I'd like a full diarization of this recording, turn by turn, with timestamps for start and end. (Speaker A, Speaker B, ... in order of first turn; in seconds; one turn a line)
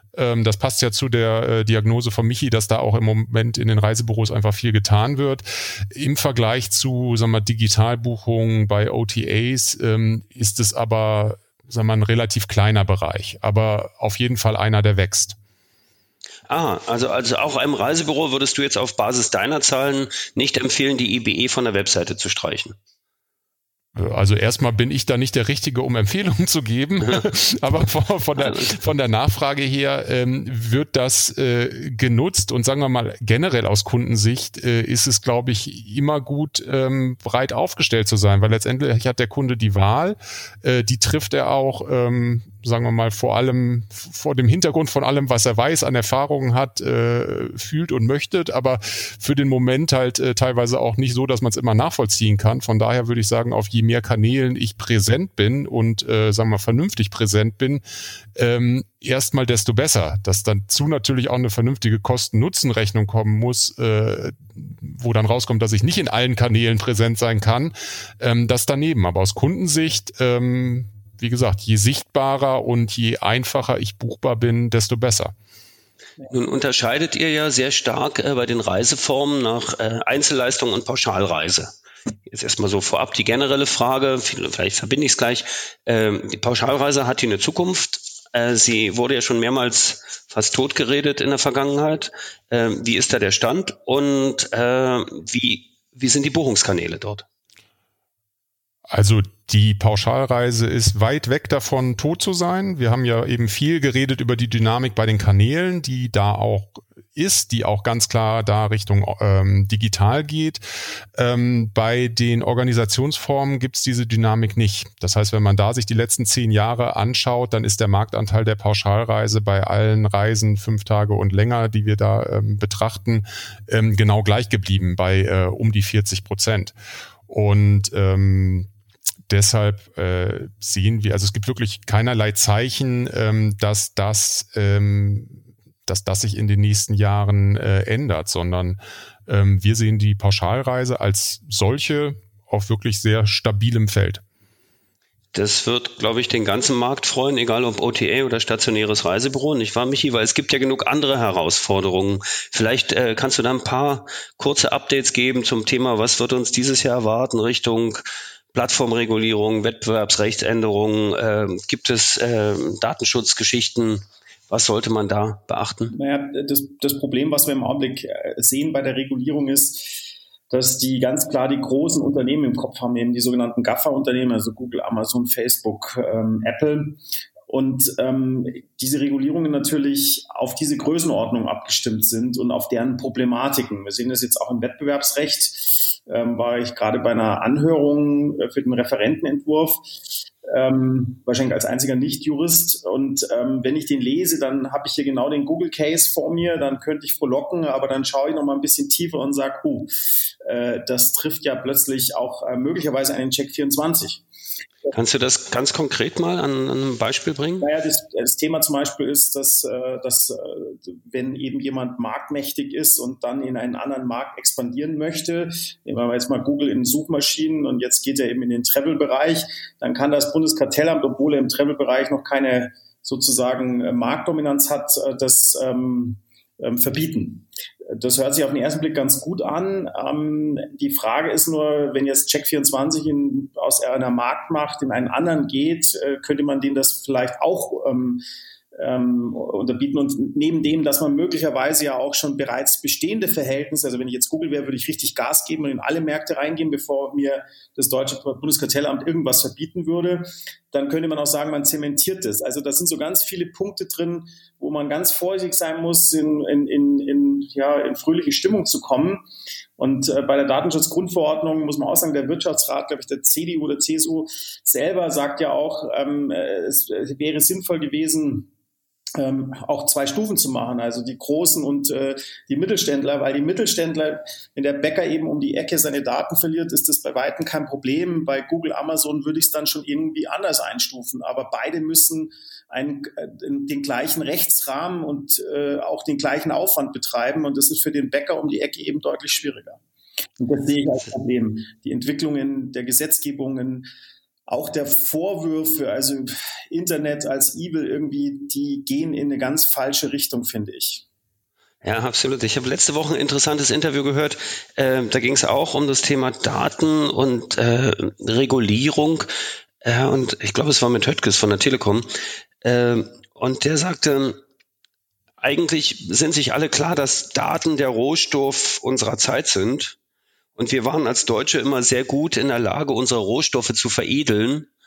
Speaker A: 0.1-15.4
Speaker B: 16.5-22.7
Speaker A: 23.9-57.8
Speaker B: 28.4-28.7
Speaker A: 58.4-75.3
Speaker B: 76.3-81.7
Speaker B: 82.3-97.2
Speaker A: 98.9-110.6
Speaker A: 111.2-126.7
Speaker A: 127.3-128.7
Speaker A: 129.3-144.2
Speaker B: 145.3-165.9
Speaker C: 165.9-189.9
Speaker C: 190.4-204.2
Speaker B: 204.9-207.7
Speaker C: 207.6-238.2
Speaker C: 238.8-259.2
Speaker C: 259.8-268.5
Speaker C: 269.2-289.8
Speaker C: 290.4-293.9
Speaker C: 294.5-301.0
Speaker B: 301.8-309.3
Speaker B: 309.8-312.1
Speaker B: 312.6-314.4
Speaker B: 315.4-319.9
Speaker B: 320.6-324.7